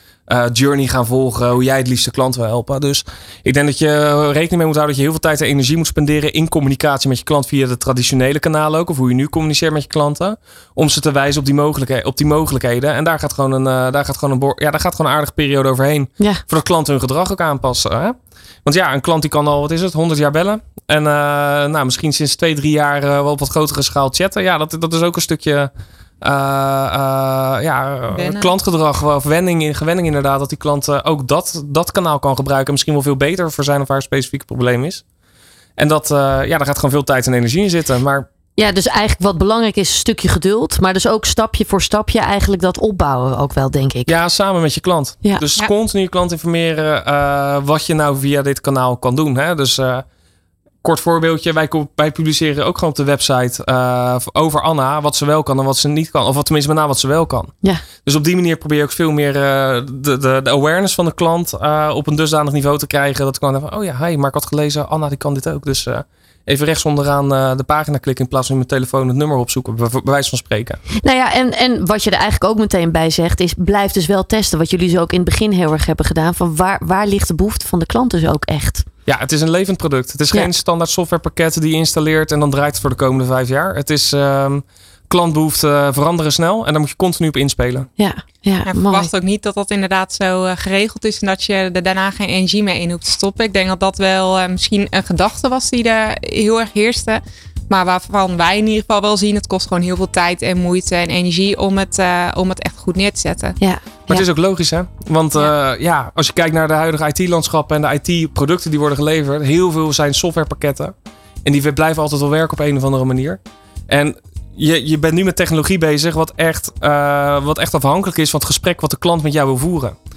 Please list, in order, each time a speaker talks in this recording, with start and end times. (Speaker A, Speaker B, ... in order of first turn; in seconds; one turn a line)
Speaker A: 0.3-25.7
Speaker A: 26.2-35.0
Speaker B: 28.1-28.5
Speaker A: 35.8-38.3
Speaker C: 38.6-44.1
Speaker A: 44.1-50.0
Speaker A: 50.8-57.5
Speaker A: 58.0-70.8
Speaker C: 71.0-78.8
Speaker A: 79.0-87.9
Speaker C: 88.0-89.1
Speaker B: 88.7-103.6
Speaker C: 103.6-104.2
Speaker A: 104.1-110.9
Speaker A: 111.4-119.9